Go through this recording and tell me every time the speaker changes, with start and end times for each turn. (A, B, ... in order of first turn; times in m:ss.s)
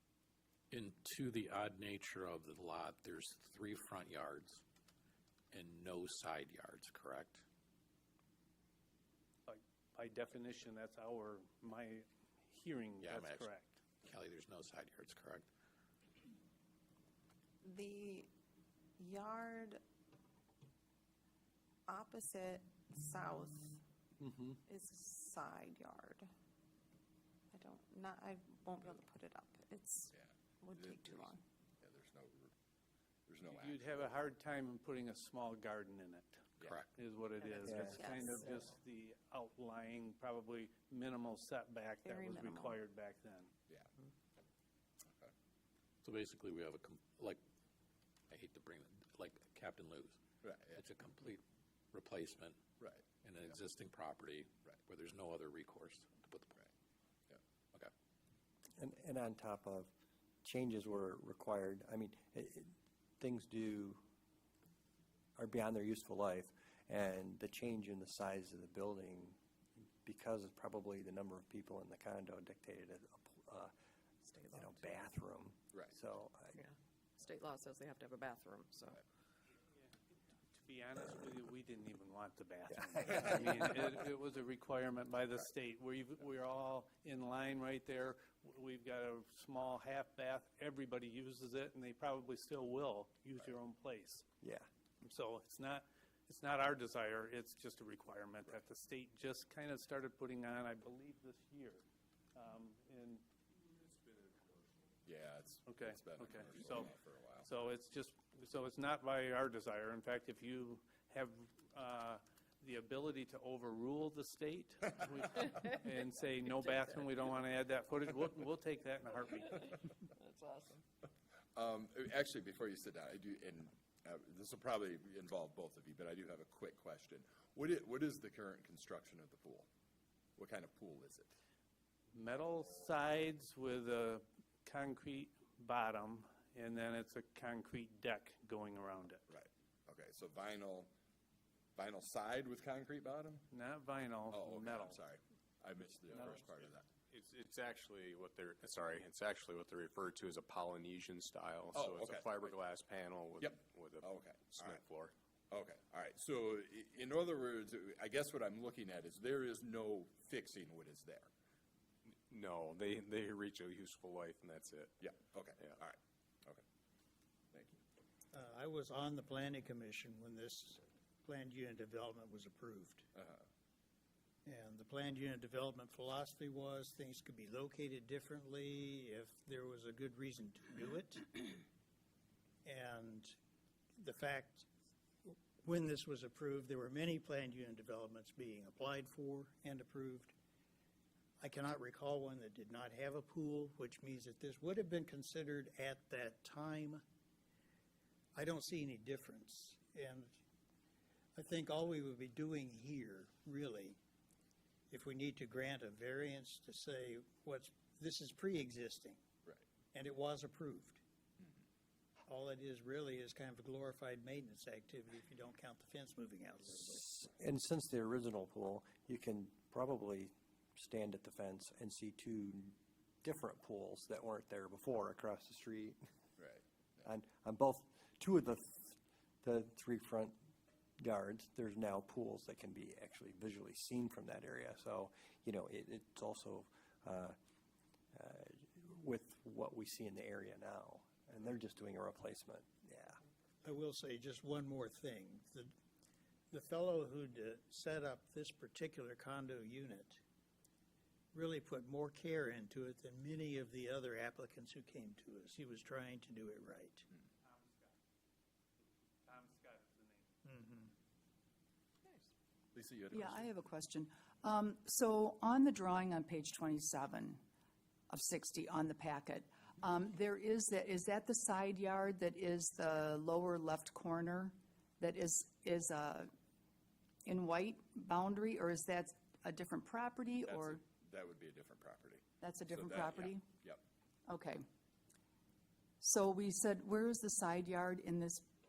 0:00.7-0:04.6 A
0:05.5-0:07.4 A
0:09.5-0:13.8 B
0:13.0-0:13.5 A
0:14.0-0:15.5 A
0:17.6-0:18.3 C
0:19.0-0:19.8 C
0:21.9-0:23.8 C
0:24.2-0:24.6 B
0:24.7-0:26.3 C
0:27.5-0:31.4 C
0:30.1-0:32.5 D
0:33.3-0:34.1 D
0:33.5-0:36.4 B
0:36.6-0:36.9 A
0:37.0-0:43.5 B
0:37.6-0:38.5 E
0:37.7-0:38.0 F
0:37.9-0:38.2 C
0:42.0-0:42.8 C
0:46.0-0:47.4 A
0:48.3-0:50.2 A
0:50.4-0:50.8 D
0:50.7-0:52.6 A
0:52.8-0:53.0 D
0:53.2-0:56.6 A
0:58.8-0:59.9 F
1:00.4-1:04.0 F
1:05.4-1:09.4 F
1:10.0-1:13.7 F
1:14.3-1:16.6 F
1:14.4-1:14.7 E
1:16.6-1:19.0 E
1:20.5-1:34.2 B
1:34.4-1:34.7 F
1:35.0-1:41.8 B
1:42.4-1:43.2 B
1:45.1-1:47.5 D
1:45.7-1:46.9 B
1:47.4-1:59.8 B
2:00.2-2:00.8 E
2:01.6-2:09.7 D
2:10.4-2:11.3 D
2:12.1-2:19.3 B
2:19.3-2:20.9 D
2:21.8-2:23.5 D
2:23.5-2:25.0 B
2:24.3-2:26.9 D
2:27.1-2:35.1 G
2:31.7-2:32.5 D
2:33.4-2:34.8 D
2:35.5-2:41.3 D
2:42.1-2:45.0 G
2:45.0-2:46.6 D
2:47.5-2:47.8 D
2:48.3-2:53.1 H
2:53.1-2:53.4 D
2:54.4-3:01.6 H
3:02.6-3:03.3 H
3:04.0-3:04.7 H
3:05.2-3:10.3 H
3:11.4-3:17.0 H
3:18.4-3:20.4 H
3:21.4-3:24.0 H
3:24.9-3:29.2 H
3:29.9-3:31.0 H
3:32.3-3:37.0 H
3:37.0-3:46.0 F
3:46.4-3:47.0 D
3:47.0-3:48.9 F
3:49.4-3:50.4 F
3:51.0-3:57.4 F
3:58.1-4:03.2 F
4:03.6-4:05.7 H
4:06.5-4:10.2 H
4:11.3-4:17.1 H
4:17.4-4:17.9 B
4:19.2-4:20.3 B
4:20.4-4:20.9 H
4:22.1-4:23.5 D
4:23.1-4:27.4 I
4:28.1-4:36.3 I
4:37.3-4:40.8 I
4:40.4-4:43.8 D
4:42.4-4:43.4 I
4:44.3-4:44.6 I
4:46.0-4:48.5 I